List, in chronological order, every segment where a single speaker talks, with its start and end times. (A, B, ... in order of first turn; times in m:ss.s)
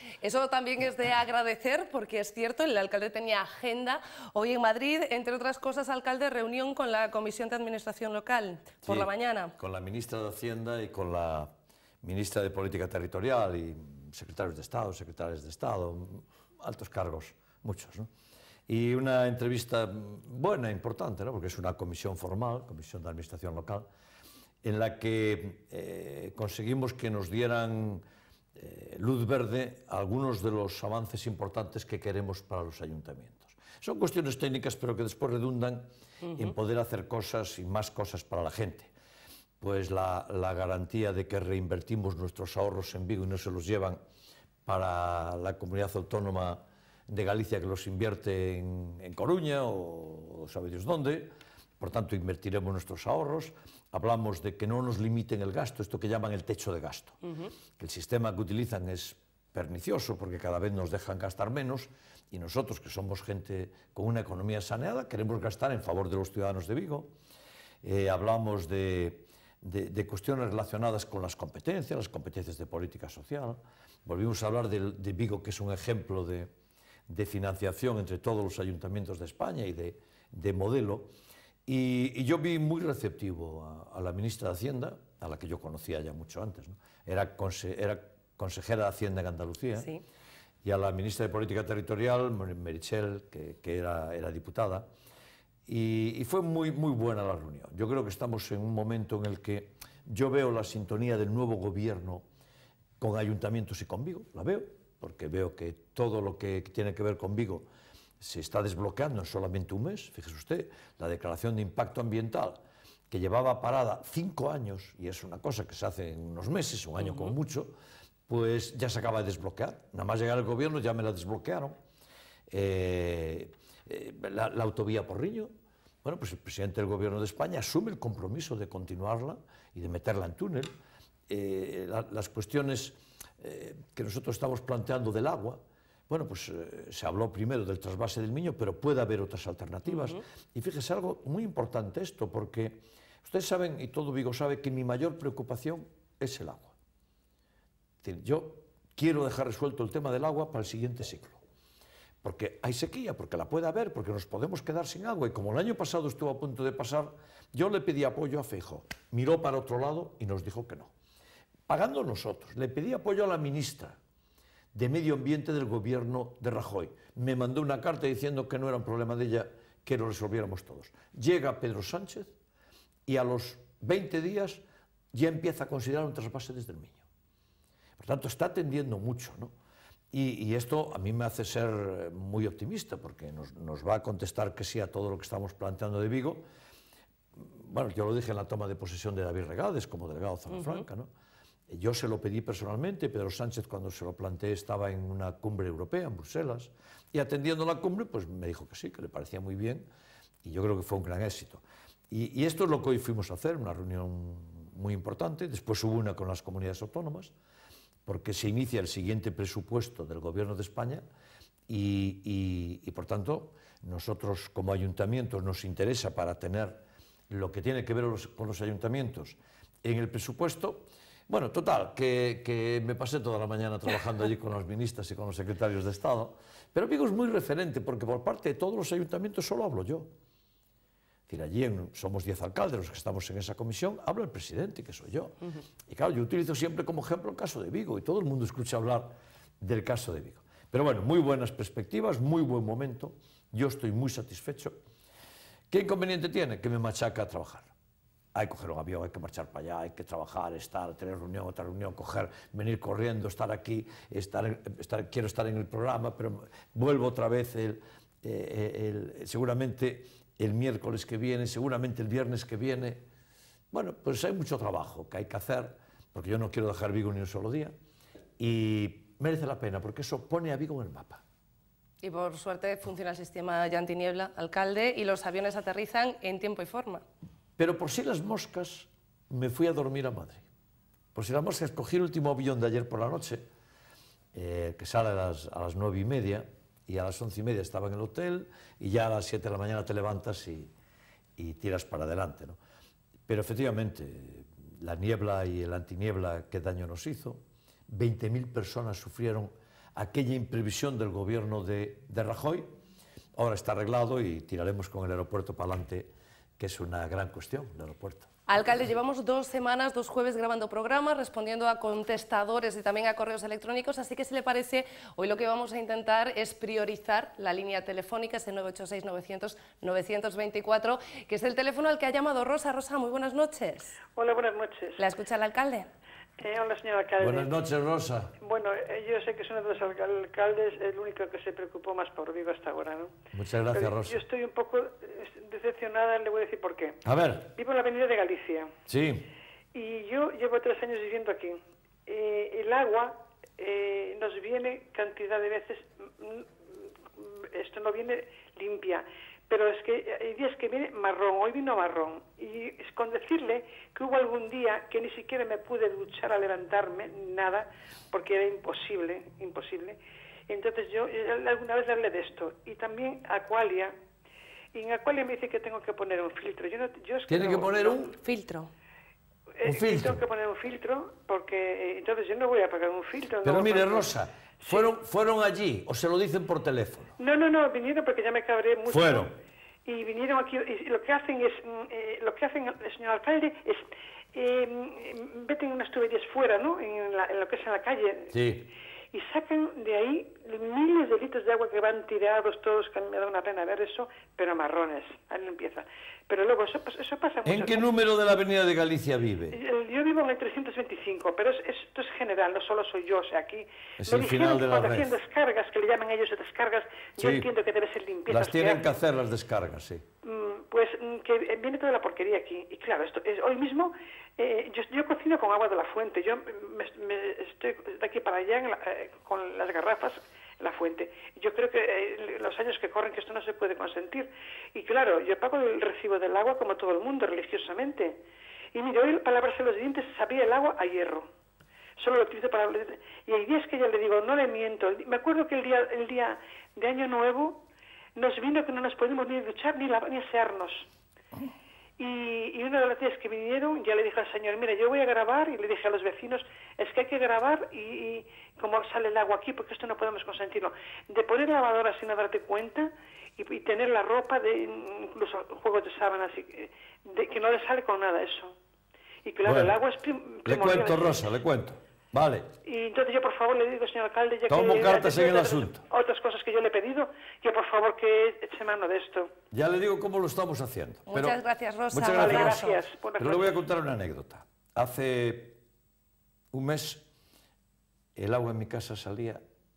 0:00.2-0:09.5 A
0:08.8-0:11.5 B
0:12.0-0:18.1 B
0:18.7-0:23.8 B
0:24.6-0:28.0 B
0:28.6-0:38.9 B
0:39.6-0:44.0 B
0:44.6-0:57.2 B
0:57.8-1:07.1 B
1:07.8-1:16.5 B
1:17.1-1:21.1 B
1:21.7-1:29.9 B
1:30.6-1:34.9 B
1:35.6-1:42.2 B
1:43.0-1:47.7 B
1:48.2-1:57.7 B
1:57.0-1:57.3 A
1:58.3-2:01.8 B
2:02.5-2:05.5 B
2:06.0-2:10.7 B
2:11.3-2:26.7 B
2:19.9-2:20.2 A
2:28.0-2:31.4 B
2:32.2-2:40.9 B
2:41.7-2:44.0 B
2:44.7-2:52.3 B
2:53.1-2:57.0 B
2:58.0-2:59.5 B
3:00.1-3:06.4 B
3:07.4-3:11.1 B
3:11.7-3:19.9 B
3:20.4-3:27.3 B
3:28.0-3:31.0 B
3:31.7-3:50.1 B
3:51.3-3:55.4 B
3:55.9-4:04.8 B
4:05.7-4:07.7 B
4:08.3-4:23.0 B
4:23.7-4:27.7 B
4:28.4-4:31.2 B
4:32.0-4:37.0 A
4:37.6-4:40.4 B
4:41.1-4:43.4 B
4:44.3-4:50.7 B
4:51.4-4:52.6 B
4:53.3-5:02.7 B
5:03.4-5:08.3 B
5:08.5-5:24.0 A
5:24.1-5:25.0 C
5:25.0-5:25.9 A
5:26.4-5:27.5 C
5:27.2-5:28.3 B
5:28.4-5:33.1 C
5:33.3-5:34.2 B
5:33.7-5:37.0 C
5:37.0-5:37.5 B
5:37.5-5:38.7 C
5:38.9-5:39.3 B
5:39.7-5:46.5 C
5:47.1-6:03.9 C
6:04.7-6:08.1 C
6:07.3-6:08.1 B
6:08.2-6:08.7 A
6:09.6-6:14.1 C
6:09.6-6:10.2 B
6:13.4-6:17.1 B
6:14.6-6:14.9 C
6:17.2-6:19.3 C
6:18.8-6:19.3 B
6:19.8-6:28.3 C
6:28.3-6:28.7 B
6:29.1-6:37.9 C
6:37.4-6:39.6 B
6:39.5-6:48.8 C
6:44.0-6:45.2 B
6:47.2-6:47.5 B
6:48.3-6:50.0 B
6:50.2-7:08.2 C
7:08.7-7:11.3 C
7:12.0-7:17.6 C
7:18.1-7:20.9 C
7:22.0-7:38.5 C
7:39.2-7:41.2 C
7:39.4-7:39.8 B
7:40.4-7:42.5 B
7:42.6-7:49.3 C
7:44.5-7:45.8 B
7:49.5-7:51.4 B
7:51.1-7:52.8 A
7:51.9-7:52.6 B
7:52.0-7:53.6 C
7:53.2-7:55.6 B
7:56.5-7:57.0 B
7:58.2-7:59.4 B